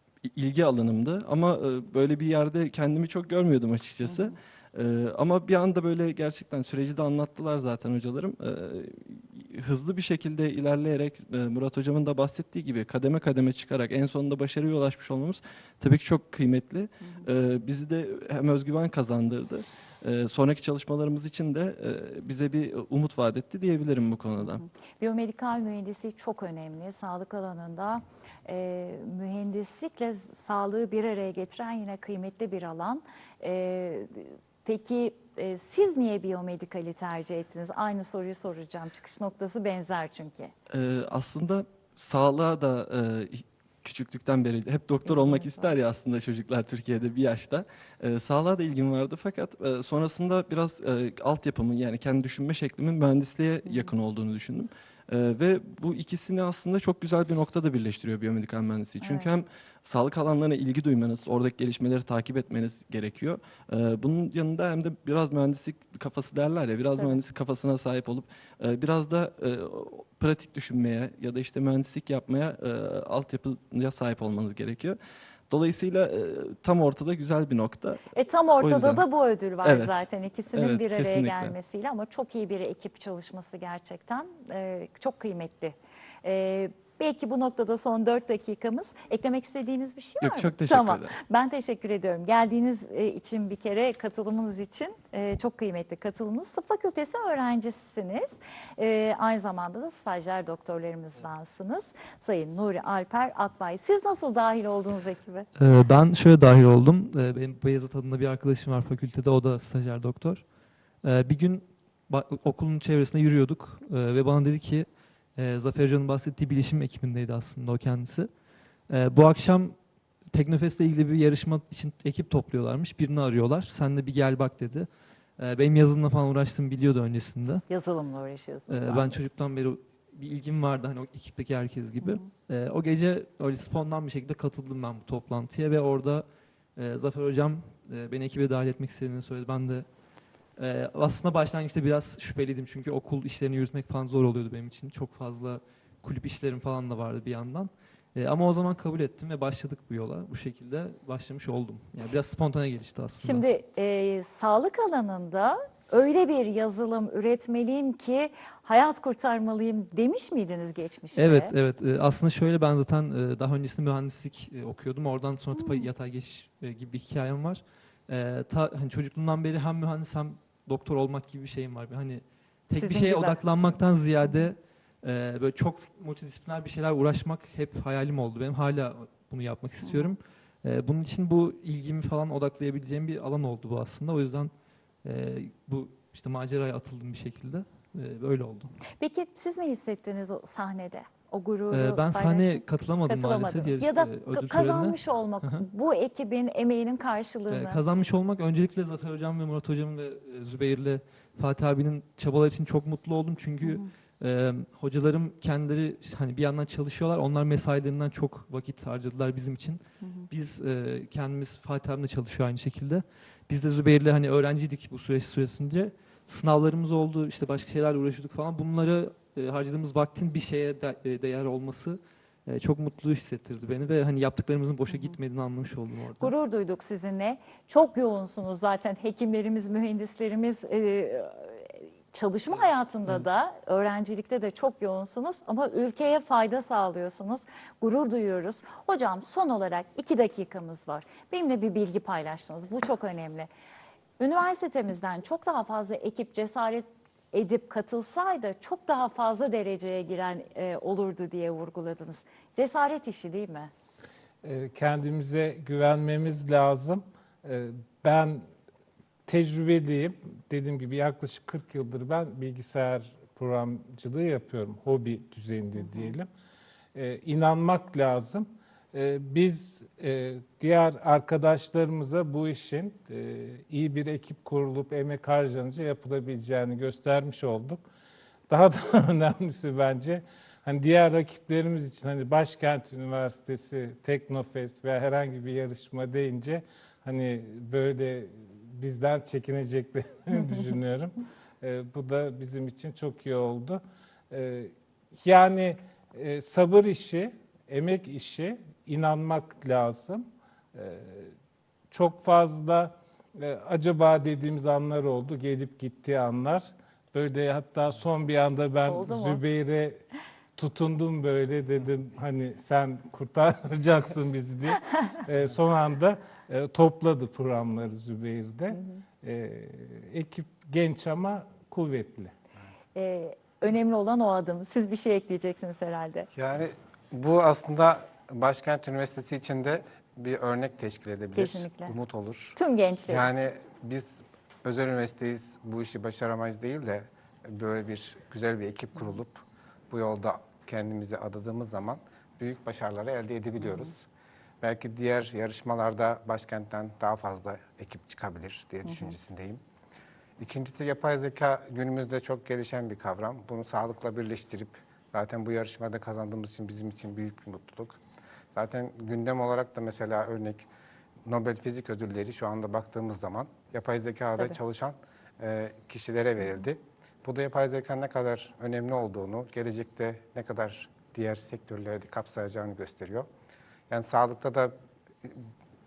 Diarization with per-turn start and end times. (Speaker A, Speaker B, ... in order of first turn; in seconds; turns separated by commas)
Speaker A: 0.2-24.6, Speaker B: 4.0-4.3, Speaker B: 24.5-40.5, Speaker A: 40.7-75.0, Speaker B: 45.1-45.7, Speaker B: 53.7-53.9, Speaker B: 59.0-59.3, Speaker A: 75.5-78.1, Speaker B: 78.1-105.5, Speaker A: 78.6-79.0, Speaker A: 79.6-81.5, Speaker A: 90.2-91.2, Speaker C: 105.6-110.5, Speaker C: 111.0-118.3, Speaker C: 118.9-119.8, Speaker C: 120.3-127.6, Speaker B: 127.7-129.2, Speaker C: 128.7-139.9, Speaker B: 132.0-132.3, Speaker C: 140.6-153.4, Speaker B: 153.2-161.5, Speaker C: 161.2-184.5, Speaker B: 165.5-165.9, Speaker B: 172.8-174.5, Speaker B: 179.8-180.1, Speaker C: 185.0-188.8, Speaker B: 188.9-197.8, Speaker C: 191.7-195.7, Speaker C: 197.5-226.3, Speaker B: 203.6-203.9, Speaker B: 210.0-210.3, Speaker B: 224.9-225.2, Speaker B: 226.2-243.5, Speaker B: 244.2-253.7, Speaker D: 254.4-258.5, Speaker D: 259.3-266.3, Speaker B: 265.8-266.1, Speaker D: 266.9-277.8, Speaker D: 278.5-301.3, Speaker D: 301.9-310.0, Speaker B: 308.9-309.4, Speaker D: 310.6-322.3, Speaker B: 318.7-319.0, Speaker B: 322.9-326.3, Speaker E: 326.3-344.0, Speaker B: 331.3-331.9, Speaker B: 332.6-333.5, Speaker B: 343.6-343.9, Speaker E: 344.6-349.6, Speaker B: 348.9-349.1, Speaker E: 350.4-358.0, Speaker E: 358.5-360.7, Speaker E: 361.3-373.3, Speaker E: 373.9-375.4